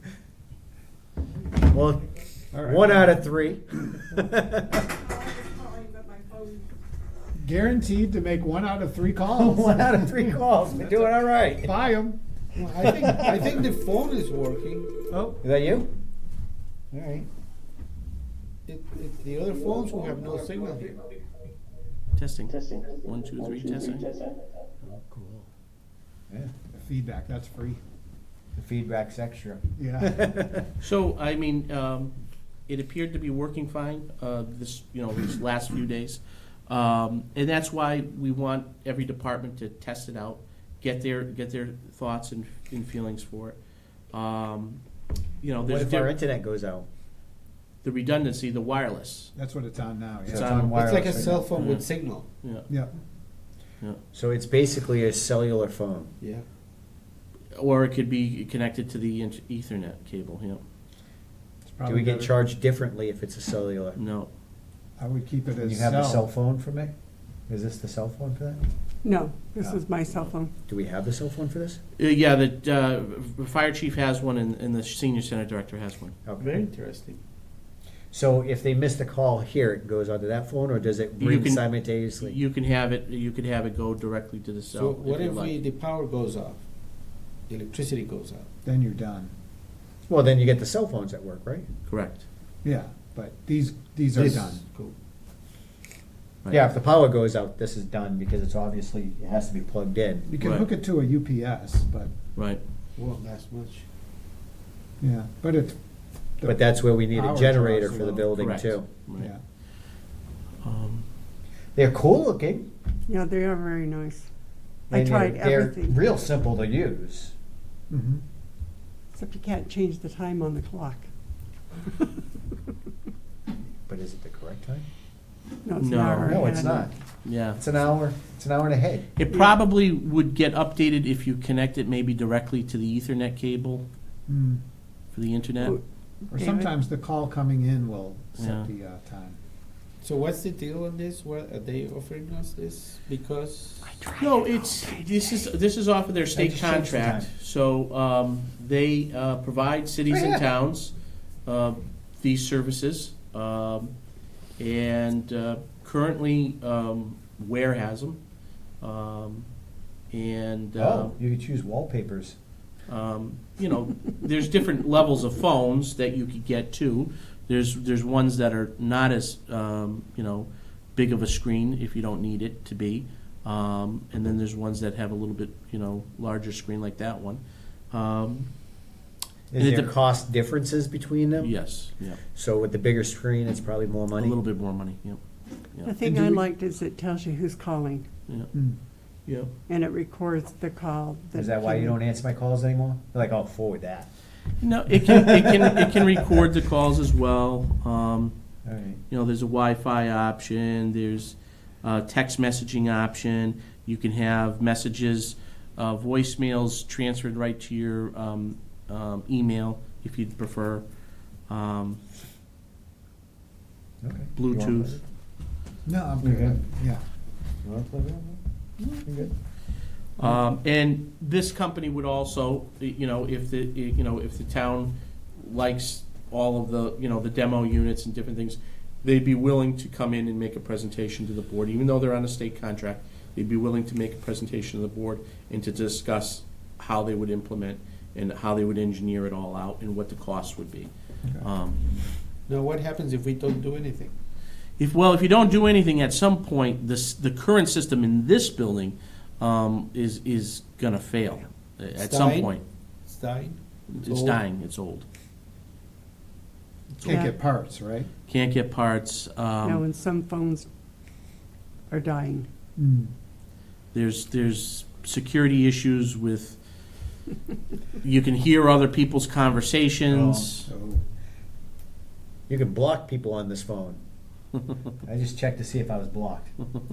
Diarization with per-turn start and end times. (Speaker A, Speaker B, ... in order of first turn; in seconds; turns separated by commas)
Speaker A: 1.6-2.1, Speaker B: 2.5-3.2, Speaker A: 2.6-4.8, Speaker B: 7.3-13.6, Speaker A: 9.3-11.7, Speaker C: 12.6-14.9, Speaker A: 12.8-13.5, Speaker B: 15.1-15.4, Speaker A: 15.4-15.9, Speaker A: 16.9-17.3, Speaker C: 18.7-21.1, Speaker D: 22.1-24.1, Speaker A: 24.8-25.5, Speaker A: 26.3-26.6, Speaker B: 26.7-27.8, Speaker A: 28.6-30.7, Speaker B: 29.8-30.2, Speaker D: 30.8-32.2, Speaker D: 32.7-43.6, Speaker D: 44.1-44.8, Speaker D: 45.4-46.1, Speaker A: 45.6-46.9, Speaker D: 47.8-49.3, Speaker B: 49.3-50.5, Speaker A: 50.3-51.5, Speaker D: 50.3-50.8, Speaker C: 50.5-52.3, Speaker D: 51.5-51.9, Speaker D: 52.4-52.7, Speaker A: 54.1-56.1, Speaker C: 56.2-56.5, Speaker D: 57.5-60.6, Speaker B: 61.6-62.3, Speaker A: 61.9-64.0, Speaker D: 64.0-64.3, Speaker B: 65.0-66.2, Speaker A: 65.6-66.9, Speaker A: 67.5-68.7, Speaker E: 69.0-70.5, Speaker A: 70.7-71.8, Speaker D: 72.0-76.6, Speaker A: 76.2-76.6, Speaker C: 76.4-77.2, Speaker A: 78.1-82.4, Speaker D: 81.2-85.6, Speaker C: 84.7-86.6, Speaker C: 87.5-88.5, Speaker B: 88.7-89.3, Speaker A: 90.1-91.7, Speaker D: 91.9-92.2, Speaker B: 92.6-94.6, Speaker C: 94.1-94.9, Speaker A: 96.5-100.3, Speaker B: 100.3-102.1, Speaker D: 100.4-100.7, Speaker C: 103.0-103.8, Speaker B: 105.0-105.8, Speaker A: 106.5-108.9, Speaker B: 107.1-108.3, Speaker D: 108.4-109.3, Speaker D: 110.6-111.1, Speaker A: 111.8-112.7, Speaker E: 113.1-114.3, Speaker A: 114.9-117.3, Speaker E: 114.9-116.0, Speaker B: 117.9-118.2, Speaker E: 119.1-121.1, Speaker A: 123.9-124.9, Speaker E: 125.7-126.9, Speaker D: 125.8-126.6, Speaker A: 126.2-126.9, Speaker D: 127.2-127.7, Speaker A: 127.4-129.1, Speaker D: 129.2-133.9, Speaker B: 134.3-134.6, Speaker D: 135.1-135.8, Speaker E: 135.6-136.7, Speaker B: 136.3-139.4, Speaker D: 138.4-138.7, Speaker C: 140.0-144.0, Speaker E: 143.8-145.4, Speaker D: 144.2-150.9, Speaker A: 146.3-147.3, Speaker A: 150.1-150.5, Speaker D: 151.4-153.9, Speaker D: 154.6-158.2, Speaker D: 158.8-159.5, Speaker D: 160.1-161.2, Speaker A: 160.8-162.3, Speaker D: 162.9-178.5, Speaker A: 179.5-181.6, Speaker D: 179.6-179.9, Speaker D: 181.4-182.2, Speaker A: 182.3-184.4, Speaker D: 184.2-185.2, Speaker D: 185.7-186.0, Speaker E: 185.8-188.1, Speaker E: 189.7-192.0, Speaker A: 191.3-194.1, Speaker D: 194.6-198.3, Speaker A: 198.7-199.0, Speaker D: 199.1-210.8, Speaker D: 211.5-212.0, Speaker A: 214.0-215.0, Speaker D: 214.4-215.0, Speaker B: 215.9-217.0, Speaker A: 216.2-216.6, Speaker A: 217.6-219.3, Speaker D: 220.2-241.8, Speaker C: 242.5-244.1, Speaker D: 244.8-252.6, Speaker C: 252.0-254.4, Speaker D: 253.9-255.1, Speaker B: 256.9-258.1, Speaker D: 257.0-257.3, Speaker E: 257.0-257.3, Speaker D: 258.3-259.8, Speaker E: 259.6-260.7, Speaker E: 261.9-262.5, Speaker B: 262.8-263.1, Speaker D: 263.9-266.6, Speaker D: 268.0-270.7, Speaker A: 270.1-270.5, Speaker B: 270.6-271.0, Speaker A: 272.5-274.0, Speaker A: 275.0-276.5